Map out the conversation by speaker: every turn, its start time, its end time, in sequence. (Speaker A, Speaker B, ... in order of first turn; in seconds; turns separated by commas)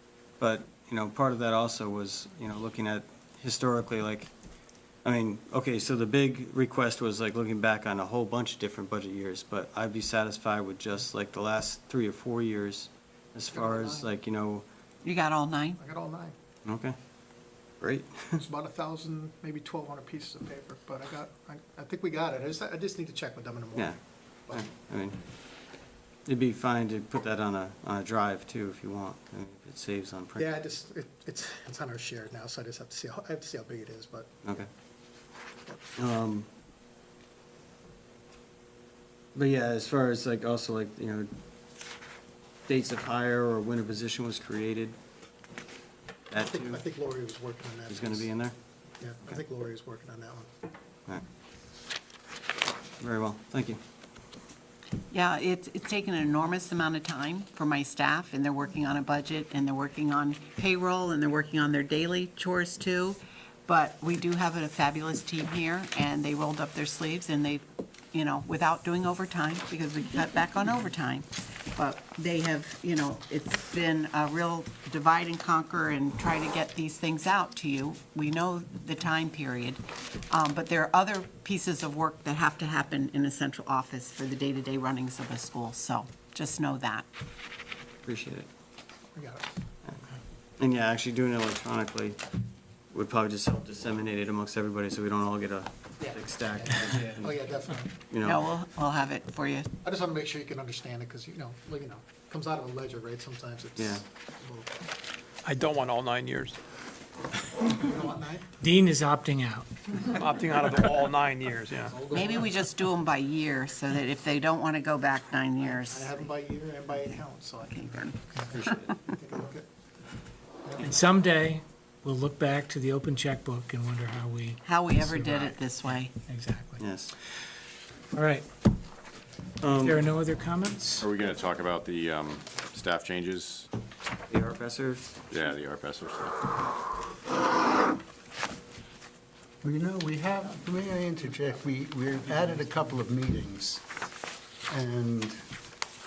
Speaker A: 0.4-4.3, Speaker A: 5.0-14.6, Speaker B: 13.5-14.1, Speaker C: 15.0-15.8, Speaker B: 15.8-16.4, Speaker A: 16.6-17.0, Speaker A: 17.8-18.4, Speaker B: 18.4-24.7, Speaker A: 24.5-25.2, Speaker A: 26.3-30.5, Speaker B: 30.4-34.3, Speaker A: 36.0-36.5, Speaker A: 39.3-41.3, Speaker A: 42.7-45.0, Speaker A: 46.3-46.8, Speaker B: 46.4-48.3, Speaker A: 47.9-48.5, Speaker B: 49.0-50.5, Speaker A: 53.0-53.8, Speaker C: 55.1-87.0, Speaker A: 88.0-88.5, Speaker B: 89.1-89.6, Speaker A: 90.6-92.2, Speaker A: 92.9-97.3, Speaker B: 97.0-97.9, Speaker A: 98.1-98.5, Speaker C: 98.2-99.7, Speaker B: 99.8-104.7, Speaker A: 103.8-104.0, Speaker D: 105.4-106.5, Speaker B: 107.6-108.4, Speaker E: 108.6-110.0, Speaker D: 110.2-111.8, Speaker B: 112.0-112.3, Speaker C: 112.1-116.2, Speaker B: 115.6-119.7, Speaker C: 117.7-118.2, Speaker B: 120.6-120.9, Speaker E: 120.8-125.5, Speaker C: 124.6-126.1, Speaker A: 126.8-127.1, Speaker E: 128.1-128.5, Speaker A: 129.6-130.0, Speaker E: 129.7-131.1, Speaker F: 131.0-133.7, Speaker A: 134.3-135.2, Speaker F: 135.3-136.4, Speaker G: 139.6-143.8, Speaker G: 144.7-145.4